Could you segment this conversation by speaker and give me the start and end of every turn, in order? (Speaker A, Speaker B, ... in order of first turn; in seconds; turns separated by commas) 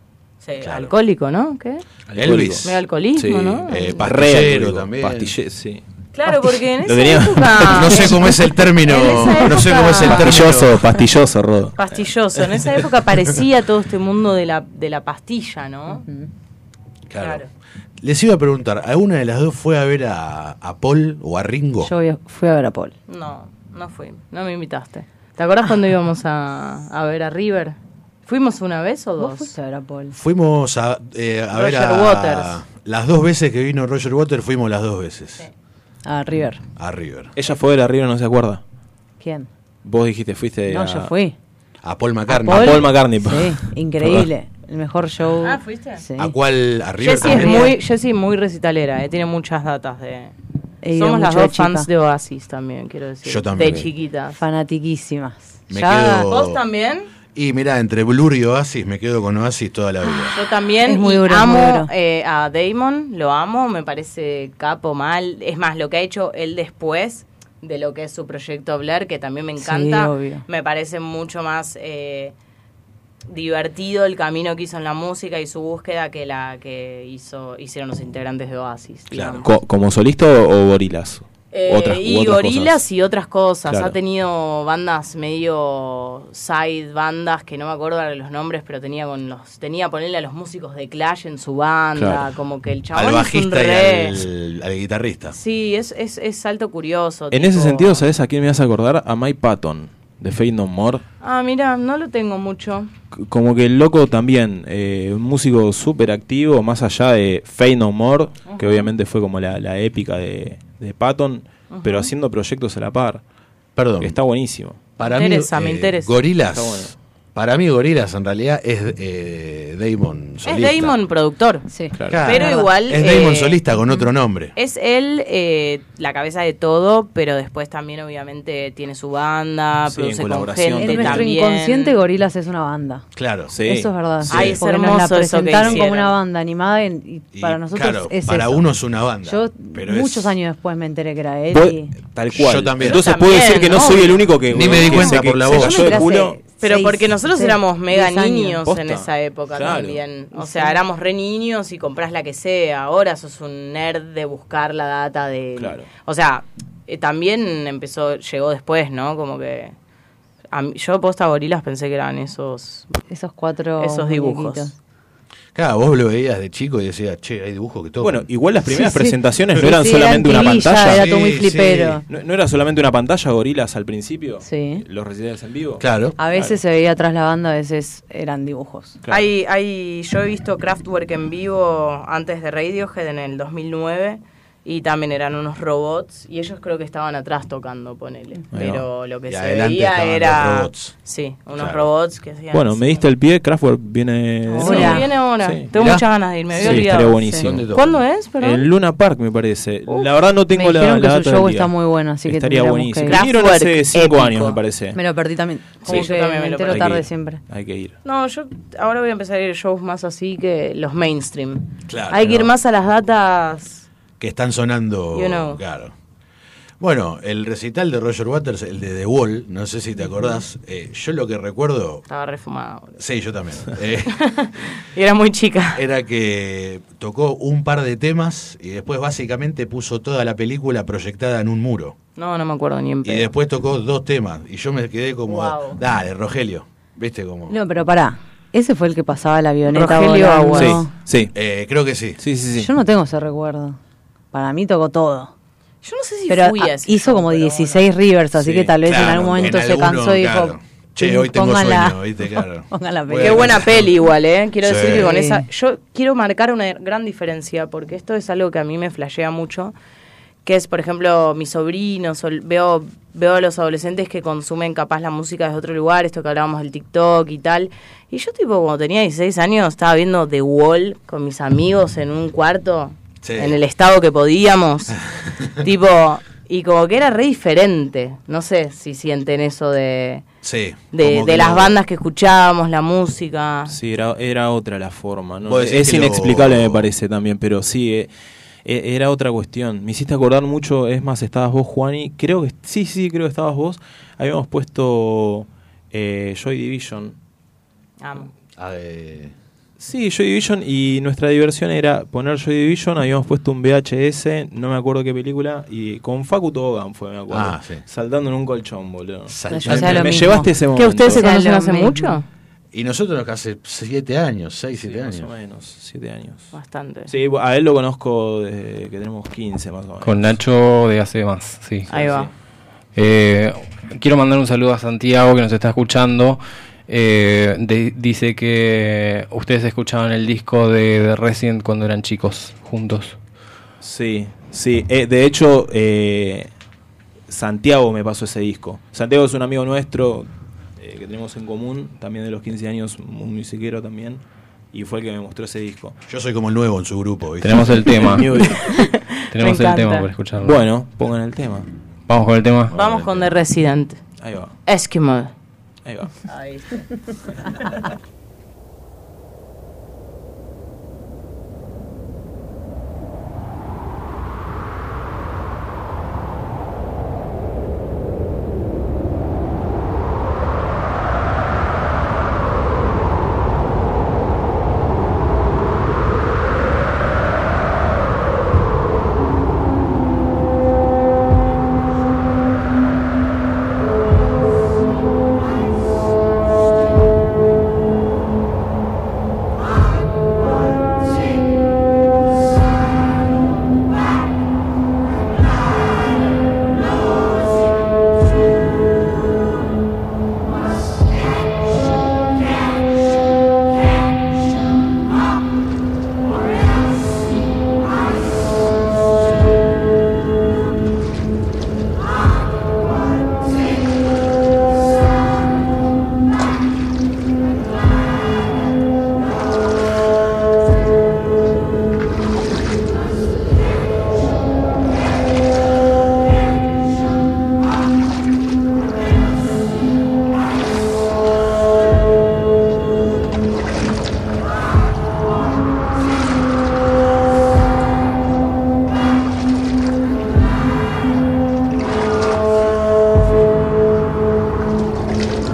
Speaker A: 0.4-1.8, Speaker B: 0.6-0.9, Speaker C: 2.1-5.8, Speaker B: 2.1-2.7, Speaker A: 2.6-4.0, Speaker B: 3.7-5.3, Speaker A: 6.1-10.3, Speaker C: 6.8-8.2, Speaker B: 7.7-10.8, Speaker C: 10.1-11.8, Speaker A: 11.8-16.0, Speaker B: 17.1-17.4, Speaker A: 17.2-17.5, Speaker B: 18.0-21.9, Speaker D: 21.8-22.9, Speaker A: 23.1-29.5, Speaker D: 29.2-30.2, Speaker B: 30.1-35.4, Speaker A: 31.6-32.6, Speaker D: 36.1-36.6, Speaker B: 36.8-37.3, Speaker C: 37.4-38.6, Speaker D: 39.2-39.5, Speaker C: 39.9-41.1, Speaker D: 40.7-41.4, Speaker B: 41.8-43.0, Speaker D: 42.3-46.3, Speaker C: 42.5-44.3, Speaker A: 45.4-46.0, Speaker B: 46.2-47.8, Speaker A: 47.0-50.3, Speaker D: 47.2-47.7, Speaker D: 50.8-51.9, Speaker A: 50.9-54.4, Speaker B: 53.2-53.9, Speaker D: 54.3-56.3, Speaker B: 55.7-56.6, Speaker A: 56.2-57.1, Speaker B: 57.4-60.4, Speaker D: 60.2-61.9, Speaker A: 60.3-72.3, Speaker D: 69.6-70.4, Speaker A: 73.3-79.5, Speaker B: 79.1-79.4, Speaker C: 79.4-82.8, Speaker A: 81.5-94.2, Speaker C: 83.7-83.9, Speaker C: 92.0-92.3, Speaker B: 92.9-95.3, Speaker A: 95.3-98.0, Speaker C: 97.3-101.0, Speaker A: 101.2-102.9, Speaker C: 103.1-113.2, Speaker A: 108.5-108.9, Speaker A: 111.7-112.1, Speaker B: 113.8-114.2, Speaker C: 114.0-114.8, Speaker B: 115.0-120.9, Speaker A: 115.0-116.1, Speaker C: 116.5-116.9, Speaker A: 120.4-123.6, Speaker D: 121.7-122.7, Speaker C: 121.9-122.2, Speaker B: 122.1-124.5, Speaker A: 124.5-131.9, Speaker C: 129.9-131.3, Speaker D: 130.8-133.1, Speaker B: 133.1-133.5, Speaker C: 133.5-134.4, Speaker D: 133.6-138.6, Speaker B: 134.3-134.6, Speaker A: 134.3-136.2, Speaker B: 137.3-140.3, Speaker D: 139.2-141.9, Speaker C: 141.5-146.4, Speaker B: 142.3-143.3, Speaker A: 142.8-144.3, Speaker B: 144.5-146.1, Speaker D: 144.6-148.6, Speaker A: 146.6-159.7, Speaker C: 148.7-150.0, Speaker D: 150.3-150.8, Speaker C: 155.6-155.9, Speaker A: 160.5-163.0, Speaker D: 163.1-164.7, Speaker A: 163.8-164.7, Speaker B: 165.6-168.3, Speaker C: 168.0-171.1, Speaker D: 168.7-172.0, Speaker B: 170.8-172.0, Speaker C: 172.1-176.6, Speaker D: 174.4-174.8, Speaker B: 175.8-176.2, Speaker D: 176.2-179.0, Speaker C: 179.0-179.3, Speaker A: 179.1-193.1, Speaker C: 188.5-188.8, Speaker B: 189.3-190.9, Speaker B: 191.6-191.9, Speaker C: 192.5-195.7, Speaker D: 194.5-195.1, Speaker A: 194.6-198.7, Speaker B: 195.7-196.1, Speaker C: 196.6-197.7, Speaker D: 196.6-197.4, Speaker B: 197.3-198.0, Speaker C: 198.4-201.7, Speaker D: 200.5-203.2, Speaker C: 202.2-205.0, Speaker A: 203.1-204.5, Speaker D: 204.4-207.4, Speaker A: 205.8-207.0, Speaker C: 206.7-208.0, Speaker A: 208.0-213.8, Speaker B: 211.9-212.4, Speaker B: 214.2-215.9, Speaker A: 215.1-215.6, Speaker B: 216.8-222.0, Speaker A: 222.1-223.0, Speaker B: 223.0-224.2, Speaker A: 224.2-225.8, Speaker B: 225.7-231.9, Speaker A: 232.2-233.3, Speaker B: 233.0-237.6, Speaker A: 235.3-235.8, Speaker D: 237.5-240.9, Speaker A: 239.7-240.8, Speaker C: 240.5-241.3, Speaker B: 241.3-242.2, Speaker C: 242.2-242.7, Speaker D: 242.6-243.8, Speaker D: 244.3-245.3, Speaker A: 245.8-247.8, Speaker D: 246.3-253.6, Speaker C: 248.3-248.7, Speaker B: 248.8-253.9, Speaker A: 253.2-259.7, Speaker B: 254.6-255.1, Speaker D: 254.8-255.5, Speaker A: 260.4-275.0, Speaker B: 273.2-273.6, Speaker A: 275.6-280.3, Speaker B: 280.4-281.8, Speaker A: 280.9-283.7, Speaker C: 283.7-288.1, Speaker B: 285.5-286.9, Speaker C: 288.6-297.1, Speaker A: 298.0-298.3, Speaker B: 298.6-299.4, Speaker C: 299.8-311.2, Speaker B: 307.3-307.9, Speaker B: 309.3-310.4, Speaker D: 309.5-312.2, Speaker A: 310.7-312.3, Speaker B: 312.7-315.3, Speaker C: 314.8-316.5, Speaker A: 316.5-317.1, Speaker C: 317.1-320.4, Speaker E: 320.0-321.9, Speaker A: 321.9-322.3, Speaker C: 321.9-322.3, Speaker E: 322.9-333.1, Speaker C: 333.8-336.5, Speaker C: 337.3-340.3, Speaker C: 340.8-344.2, Speaker C: 344.7-346.0, Speaker B: 346.1-348.0, Speaker E: 347.4-348.3, Speaker C: 348.0-348.7, Speaker A: 348.4-350.1, Speaker E: 349.3-350.6, Speaker C: 350.4-351.7, Speaker E: 352.1-352.7, Speaker B: 352.7-353.3, Speaker A: 352.7-354.0, Speaker C: 354.2-354.6, Speaker A: 354.6-355.3, Speaker C: 355.9-356.1, Speaker A: 356.3-356.8